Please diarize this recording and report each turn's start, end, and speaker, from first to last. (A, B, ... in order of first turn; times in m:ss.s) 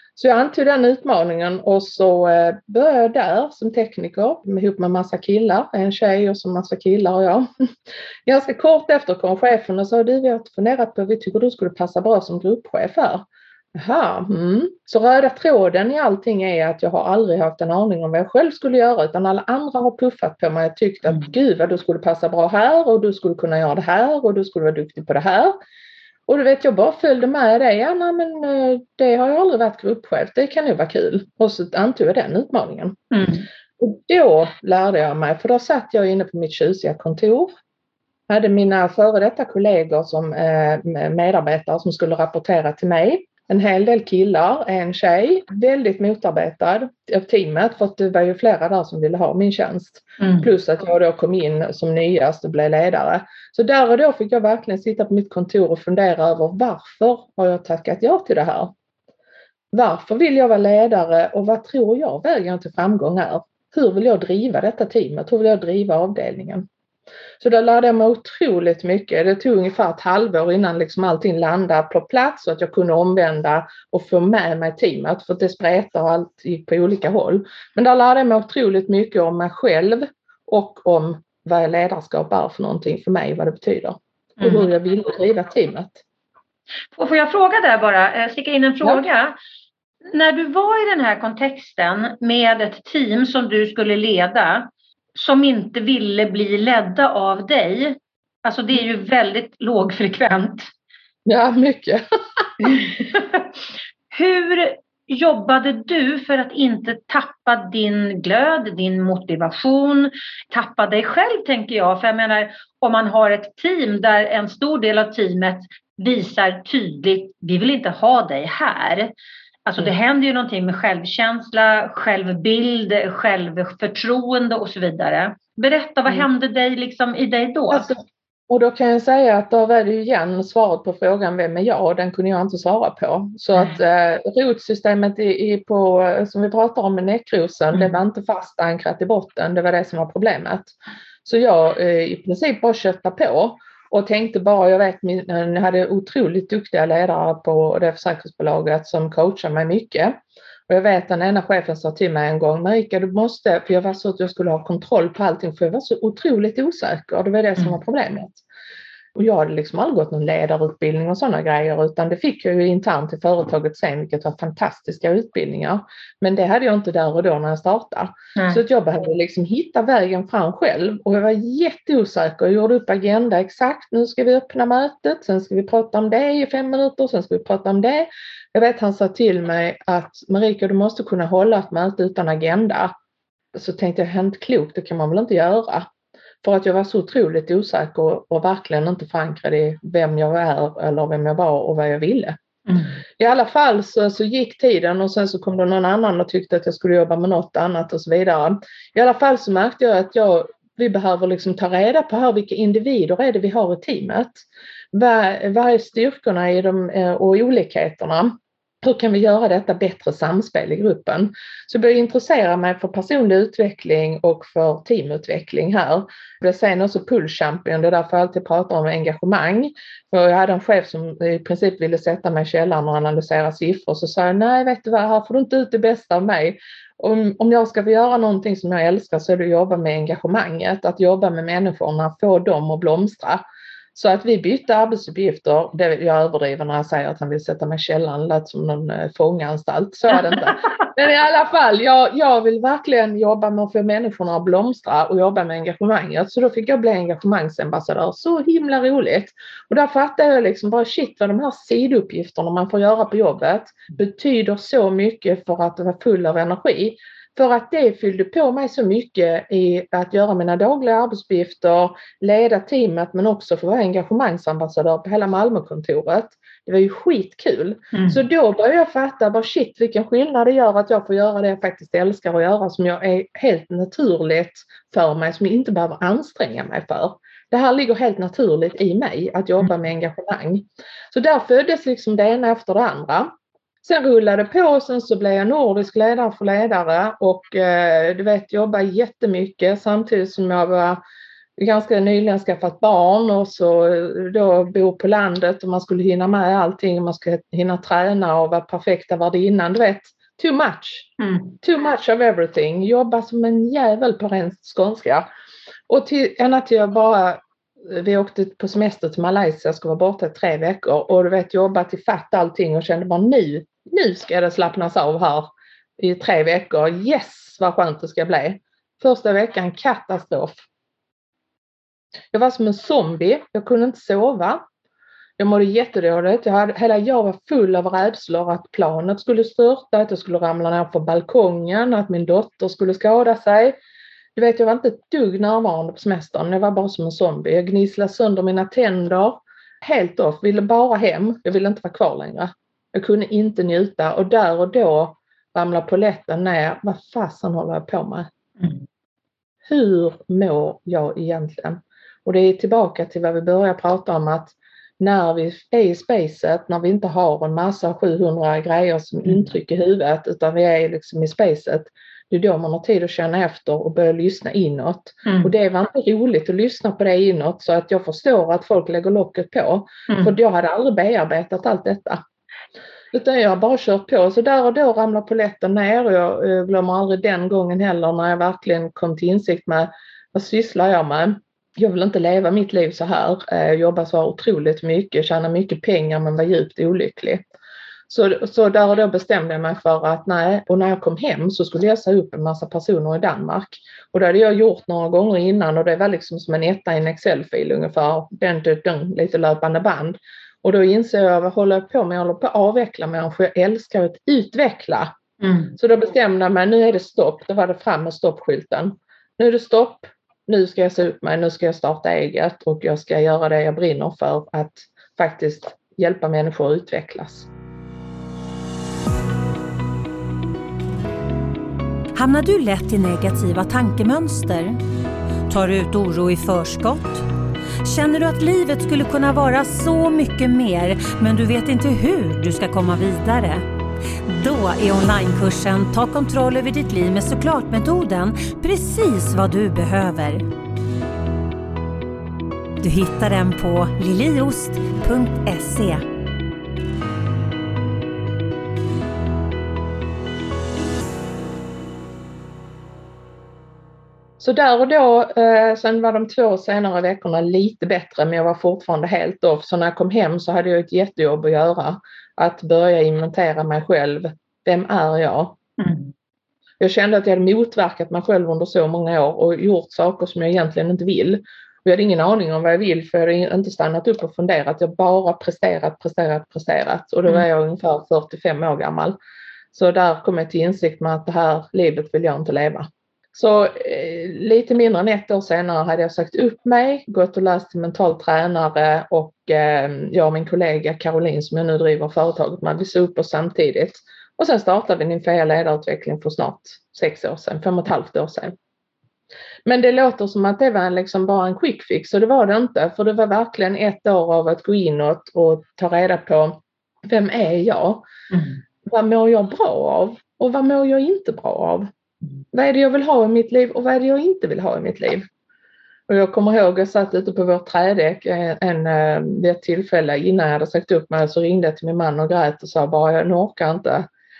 0:00.2-0:07.5 A
0:08.2-0:25.6 A
0:26.3-0:33.0 A
0:33.1-0:33.5 B
0:33.8-0:37.5 A
0:38.3-0:58.7 A
0:50.2-0:50.5 B
0:59.7-1:06.7 A
1:07.4-1:26.0 A
1:24.4-1:24.7 B
1:26.9-1:29.3 B
1:30.1-1:40.7 B
1:41.2-1:42.4 A
1:42.6-1:43.5 B
1:44.1-1:59.1 B
1:59.6-2:07.9 B
2:07.7-2:30.2 A
2:17.7-2:18.0 B
2:30.7-2:38.4 A
2:39.2-3:02.9 A
2:48.4-2:48.6 B
3:03.5-3:05.9 A
3:06.4-3:12.4 A
3:12.7-3:13.0 B
3:13.2-3:53.4 A
3:53.9-4:43.3 A
4:27.9-4:28.2 B
4:43.8-4:51.0 A
4:51.6-5:01.1 A
5:01.2-5:01.6 B
5:01.6-5:05.3 A
5:05.9-5:20.6 A
5:22.3-5:24.6 A
5:25.4-5:33.8 A
5:34.4-5:48.3 A
5:49.6-6:12.2 A
6:05.2-6:05.5 B
6:10.1-6:10.3 B
6:13.1-6:27.4 A
6:28.1-6:45.1 A
6:45.4-6:45.8 B
6:45.8-6:57.5 A
7:02.1-7:04.8 C
7:05.5-7:07.2 C
7:07.8-7:13.6 C
7:14.2-7:20.4 C
7:22.8-7:26.0 C
7:34.4-7:45.6 A
7:45.8-7:46.1 B
7:46.8-7:59.2 A
7:59.7-8:18.5 A
8:19.6-8:28.0 A
8:28.3-8:28.6 B
8:28.8-8:31.9 A
8:32.5-8:35.2 A
8:36.1-8:44.1 A